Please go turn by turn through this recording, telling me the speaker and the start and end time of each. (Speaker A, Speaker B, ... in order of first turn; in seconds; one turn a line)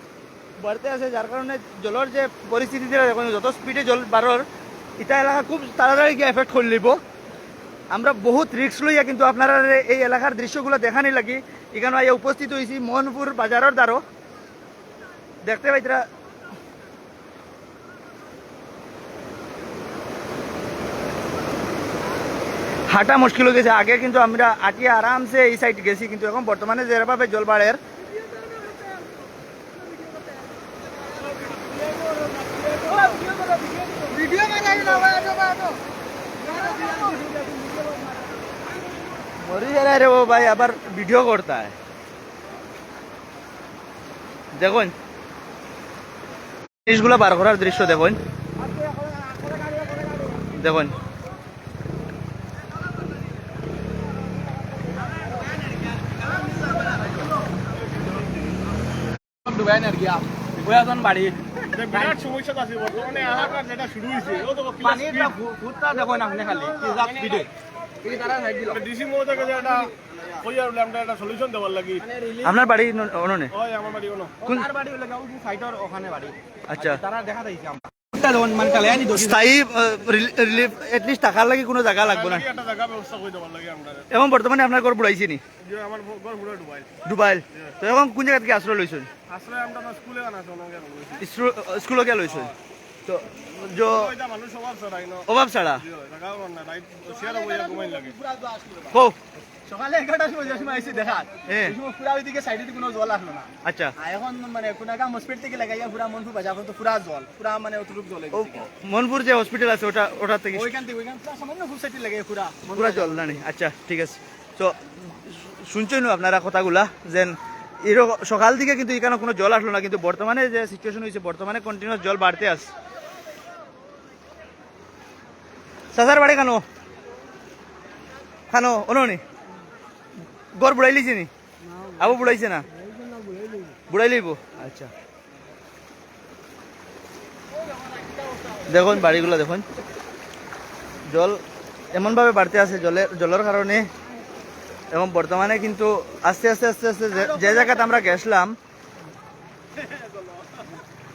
Speaker A: 0.6-4.4
Speaker A: 5.0-7.0
Speaker A: 7.9-14.0
Speaker A: 15.4-16.0
Speaker A: 22.9-27.8
Speaker B: 32.4-35.8
Speaker B: 36.5-38.0
Speaker A: 39.4-41.8
Speaker A: 44.6-44.9
Speaker A: 46.9-48.2
Speaker A: 50.5-50.9
Speaker B: 59.4-61.4
Speaker C: 61.7-65.4
Speaker B: 61.9-62.2
Speaker B: 64.8-67.5
Speaker B: 68.0-68.8
Speaker C: 68.7-72.1
Speaker A: 72.3-73.5
Speaker C: 73.6-74.4
Speaker B: 74.5-79.3
Speaker A: 76.7-77.0
Speaker A: 79.0-82.5
Speaker C: 82.0-84.0
Speaker A: 84.1-85.4
Speaker C: 85.6-86.9
Speaker A: 87.0-89.1
Speaker C: 89.3-91.2
Speaker A: 91.2-92.5
Speaker A: 93.1-94.1
Speaker C: 93.9-95.2
Speaker A: 95.3-95.8
Speaker C: 95.9-98.1
Speaker B: 97.0-99.0
Speaker A: 98.9-99.2
Speaker B: 99.6-108.7
Speaker A: 101.5-101.8
Speaker A: 103.6-103.9
Speaker A: 108.3-110.8
Speaker B: 110.5-113.4
Speaker A: 112.7-122.7
Speaker A: 125.9-126.6
Speaker A: 128.5-129.2
Speaker A: 130.6-131.3
Speaker A: 131.9-132.7
Speaker B: 133.1-133.7
Speaker A: 133.9-134.9
Speaker A: 138.7-139.6
Speaker A: 141.1-141.4
Speaker A: 141.9-143.9
Speaker A: 144.9-148.6